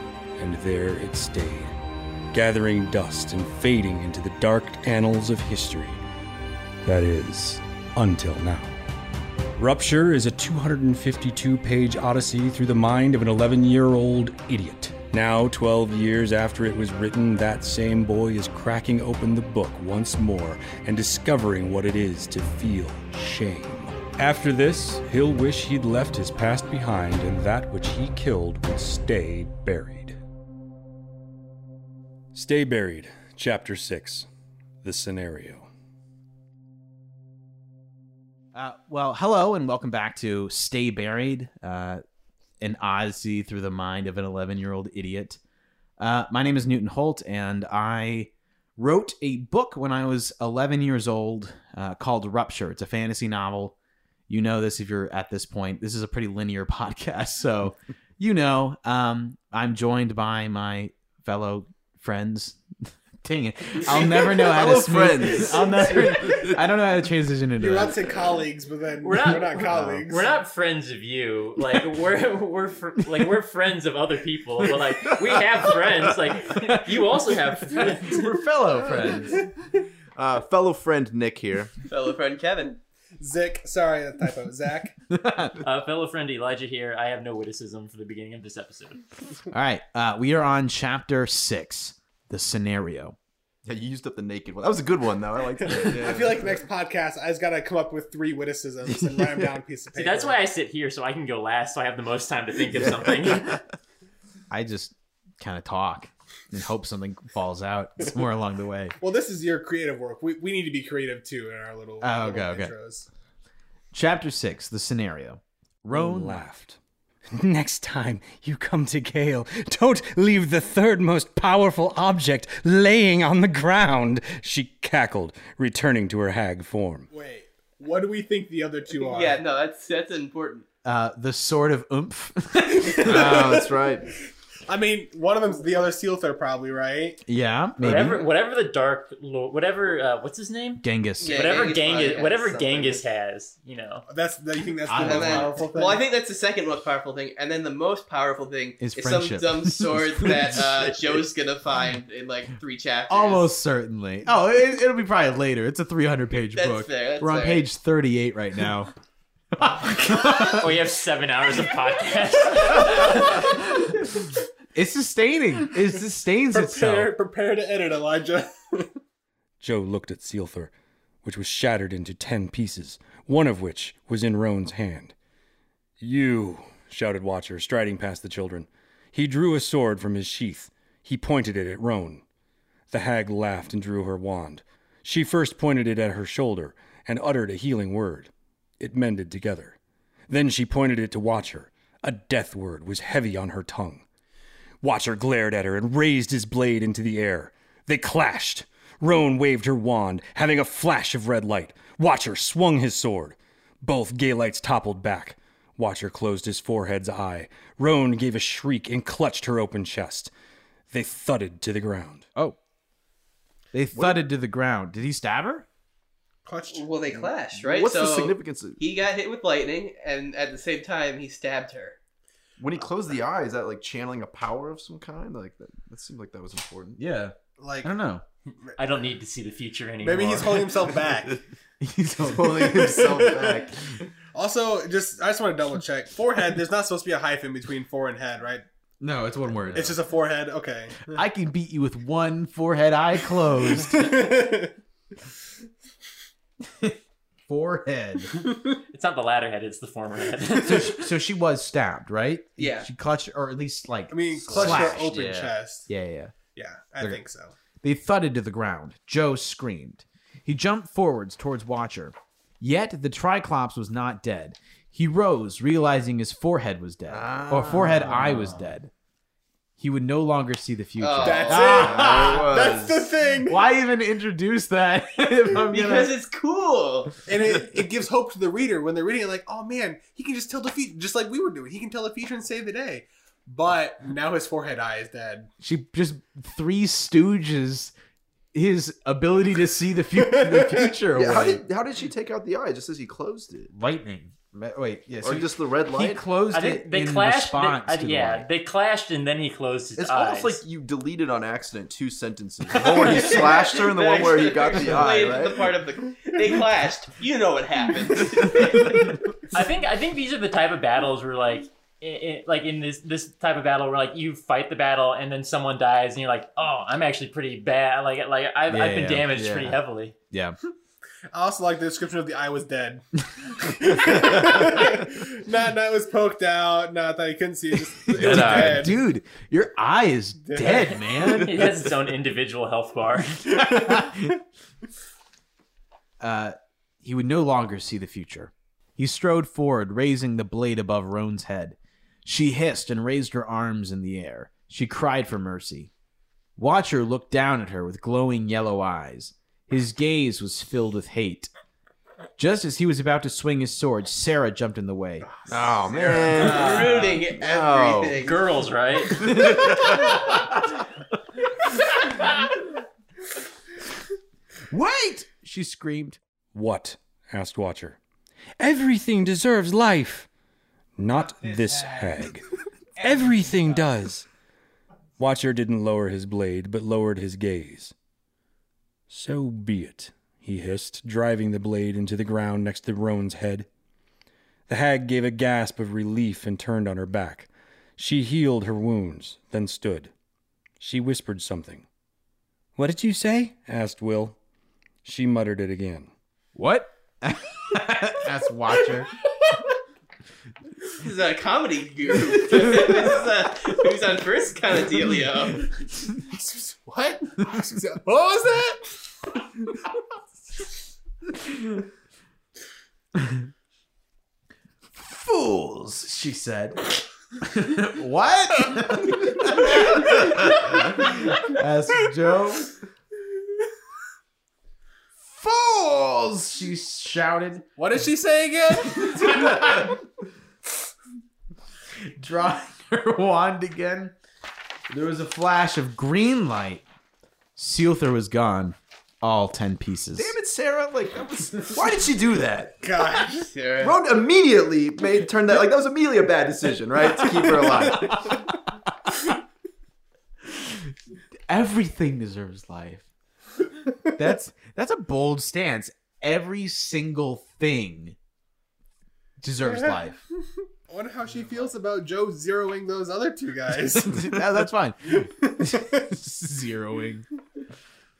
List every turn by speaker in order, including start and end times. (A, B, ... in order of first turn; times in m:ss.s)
0:00.4-0:01.7 A
0:02.3-0:06.0 A
0:06.8-0:08.8 A
0:09.6-0:30.2 A
0:32.3-0:34.3 A
0:34.8-0:35.7 A
0:38.5-0:42.0 B
0:42.6-0:45.4 B
0:46.0-0:53.7 B
0:54.3-1:07.9 B
1:03.9-1:06.6 C
1:07.6-1:10.2 D
1:09.0-1:18.3 E
1:16.5-1:16.9 B
1:17.7-1:19.5 B
1:20.2-1:21.7 C
1:21.8-1:22.8 F
1:23.2-1:24.9 D
1:25.1-1:25.6 B
1:25.6-1:29.0 E
1:29.5-1:33.2 B
1:33.6-1:36.6 C
1:35.6-1:40.4 D
1:39.9-1:43.6 E
1:42.8-1:43.1 C
1:44.5-1:48.9 B
1:49.0-1:53.1 D
1:52.0-1:52.7 B
1:53.9-1:56.4 B
1:55.9-1:56.8 A
1:57.3-2:07.1 A
2:07.1-2:09.4 D
2:08.9-2:10.6 F
2:10.8-2:13.6 B
2:12.8-2:13.7 D
2:13.0-2:14.0 C
2:14.7-2:17.2 D
2:17.3-2:18.2 B
2:17.8-2:24.0 E
2:20.8-2:21.4 B
2:21.2-2:23.0 F
2:24.1-2:26.0 D
2:24.8-2:25.8 B
2:24.9-2:33.5 F
2:28.8-2:30.6 B
2:33.1-2:38.9 B
2:36.5-2:37.6 F
2:39.5-2:40.7 B
2:40.1-2:43.6 E
2:42.7-2:43.5 B
2:44.7-2:47.1 B
2:46.5-2:48.9 D
2:49.6-2:50.7 A
2:51.2-2:55.1 A
2:56.0-3:02.2 A
3:02.9-3:09.8 A
3:10.3-3:14.0 A
3:14.8-3:30.3 A
3:30.9-3:32.3 A
3:33.7-3:35.6 B
3:33.9-3:34.2 C
3:36.4-3:37.2 D
3:36.7-3:42.0 F
3:37.6-3:38.8 C
3:42.6-3:47.0 C
3:47.0-3:48.2 B
3:47.6-3:47.9 D
3:48.8-3:50.7 E
3:50.0-3:51.4 D
3:51.8-3:52.7 B
3:52.3-3:53.8 C
3:52.5-3:53.7 D
3:54.3-3:58.6 D
3:59.0-4:00.0 B
3:59.7-4:01.2 D
4:01.1-4:04.1 B
4:03.7-4:04.8 D
4:07.5-4:08.3 B
4:08.9-4:11.0 E
4:10.6-4:15.2 B
4:12.6-4:12.9 F
4:14.1-4:15.9 D
4:14.5-4:15.5 C
4:15.9-4:16.4 B
4:16.6-4:17.5 D
4:17.8-4:28.9 B
4:27.1-4:28.3 C
4:29.8-4:32.4 B
4:31.0-4:32.1 F
4:31.2-4:33.6 D
4:31.6-4:33.0 C
4:33.5-4:36.1 B
4:35.7-4:37.1 F
4:37.3-4:45.5 D
4:45.6-4:47.9 B
4:48.5-4:51.6 B
4:50.2-4:50.9 D
4:51.1-4:53.7 C
4:53.7-4:58.5 B
4:55.2-4:56.2 C
4:56.5-5:00.6 E
5:00.0-5:05.7 C
5:02.8-5:09.1 F
5:09.5-5:20.1 E
5:18.7-5:19.7 B
5:20.3-5:20.6 B
5:21.3-5:29.0 D
5:28.1-5:31.8 B
5:28.2-5:28.9 C
5:30.5-5:31.1 D
5:31.3-5:33.7 E
5:33.5-5:34.3 B
5:36.2-5:45.9 B
5:46.6-5:51.5 B
5:52.4-5:55.3 B
5:55.5-5:58.2 C
5:56.0-5:57.0 B
5:56.3-5:57.2 E
5:56.4-5:58.6 F
5:58.2-5:59.9 E
5:59.3-5:59.8 B
5:59.4-5:59.7 C
6:04.7-6:06.2 B
6:06.5-6:08.0 A
6:08.6-6:10.3 A
6:11.0-6:12.4 A
6:13.0-6:14.3 A
6:15.2-6:17.9 A
6:19.1-6:23.7 A
6:24.7-6:30.1 A
6:30.8-6:31.9 A
6:32.8-6:34.4 A
6:35.0-6:36.1 A
6:36.5-6:39.1 B
6:41.0-6:45.7 F
6:46.1-6:49.9 D
6:54.9-6:56.9 B
6:57.4-7:02.8 B
7:05.3-7:07.7 B
7:07.8-7:09.9 D
7:12.2-7:14.1 B
7:14.9-7:16.8 B
7:17.6-7:20.3 B
7:20.2-7:22.8 C
7:22.8-7:23.5 D
7:23.3-7:24.0 F
7:23.8-7:28.3 C
7:31.5-7:33.0 B
7:34.1-7:38.2 B
7:39.4-7:40.2 B
7:39.6-7:39.9 D
7:40.9-7:44.4 D
7:43.9-7:47.2 B
7:45.2-7:46.0 D